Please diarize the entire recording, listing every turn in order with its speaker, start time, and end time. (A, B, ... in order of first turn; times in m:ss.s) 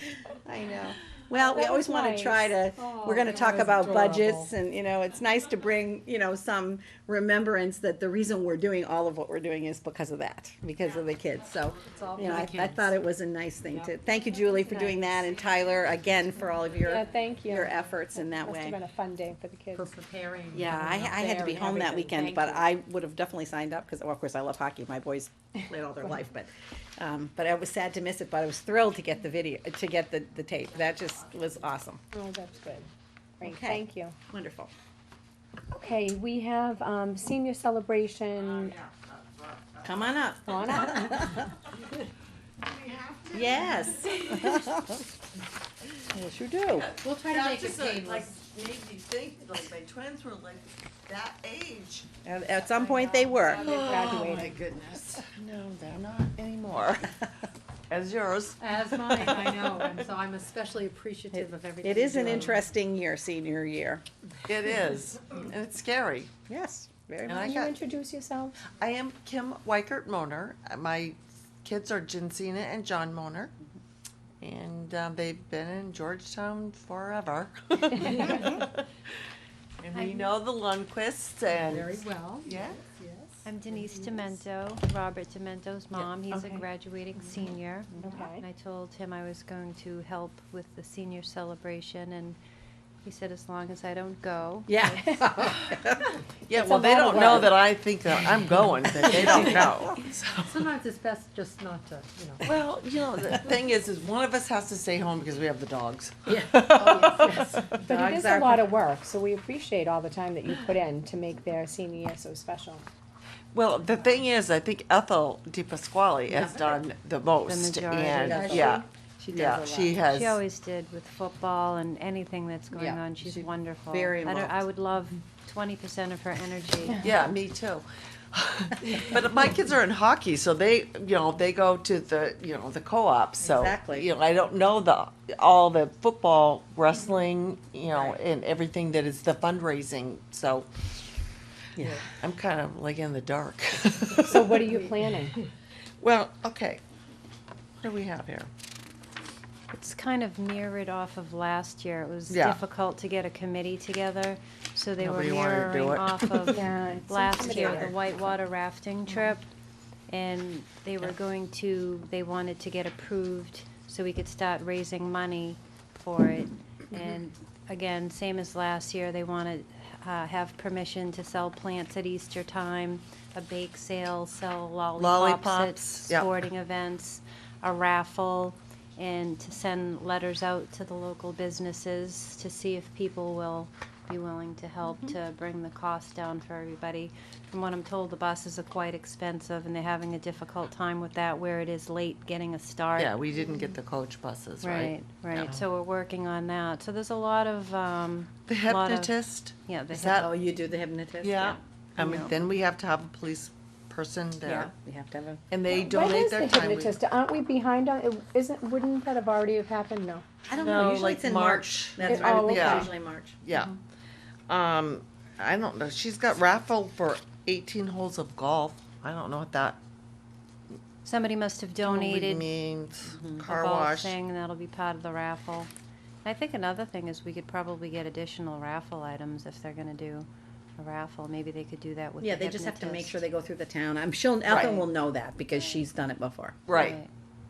0:00.4-0:18.8 A
0:01.4-0:02.4 B
0:02.7-0:04.5 C
0:11.7-0:12.3 D
0:11.8-0:13.0 C
0:13.6-0:15.3 C
0:15.4-0:16.0 D
0:16.9-0:19.8 B
0:19.7-0:22.7 C
0:20.5-0:32.0 A
0:30.6-0:31.5 D
0:32.1-0:32.9 B
0:33.4-0:34.1 B
0:33.4-0:34.7 A
0:35.7-0:38.7 B
0:38.3-0:40.9 D
0:39.8-0:41.5 A
0:40.5-0:41.0 B
0:42.6-0:44.7 D
0:43.3-0:45.0 A
0:46.1-0:46.9 A
0:46.7-0:52.1 D
0:47.0-0:48.4 C
0:52.2-0:53.7 A
0:52.7-0:53.4 C
0:53.4-0:57.1 D
0:53.9-0:54.5 B
0:57.9-0:59.9 D
0:58.6-1:02.7 C
1:01.3-1:04.0 A
1:04.5-1:06.3 D
1:06.5-1:07.4 A
1:07.3-1:07.8 D
1:07.4-1:08.6 B
1:08.7-1:13.5 D
1:14.4-1:18.8 D
1:18.0-1:18.5 C
1:19.8-1:22.8 D
1:19.9-1:20.3 E
1:21.5-1:24.4 C
1:23.4-1:32.4 E
1:25.9-1:26.6 D
1:28.0-1:28.4 B
1:33.0-1:34.7 E
1:34.7-1:36.1 A
1:36.5-1:40.6 D
1:36.6-1:37.5 B
1:39.0-1:39.7 C
1:40.4-1:42.4 C
1:42.4-1:47.7 D
1:46.3-1:47.1 A
1:46.9-1:47.8 C
1:47.7-1:48.8 A
1:47.9-1:52.9 B
1:53.5-2:00.4 D
1:56.4-1:56.7 A
1:57.5-1:58.6 E
1:58.2-2:00.0 A
2:00.0-2:07.1 E
2:03.2-2:04.6 D
2:04.0-2:04.4 A
2:07.0-2:20.7 D
2:13.4-2:14.1 A
2:21.8-2:22.0 A
2:22.1-2:24.8 D
2:24.3-2:25.3 B
2:26.0-2:26.8 D
2:27.8-2:28.5 D
2:29.7-2:39.4 E
2:32.3-2:32.6 D
2:35.0-2:36.7 D
2:36.5-2:37.9 B
2:40.1-3:13.1 E
2:55.0-2:56.3 D
3:13.0-3:15.6 D
3:14.6-3:20.3 E
3:18.5-3:20.3 D
3:20.0-3:21.6 A
3:21.2-3:24.7 D
3:22.0-3:22.3 E
3:24.4-3:25.4 A
3:25.5-3:27.0 D
3:25.7-3:30.2 B
3:30.4-3:33.4 A
3:30.5-3:32.9 D
3:32.0-3:32.8 B
3:33.4-3:33.8 D
3:34.5-3:39.8 D
3:41.0-3:42.5 E
3:41.8-3:44.2 D
3:43.0-3:43.4 A
3:43.4-3:45.7 E
3:46.2-3:53.2 E
3:52.2-3:56.6 A
3:54.4-3:54.9 D
3:55.6-3:55.8 E
3:56.7-3:57.0 D
3:56.7-3:57.1 E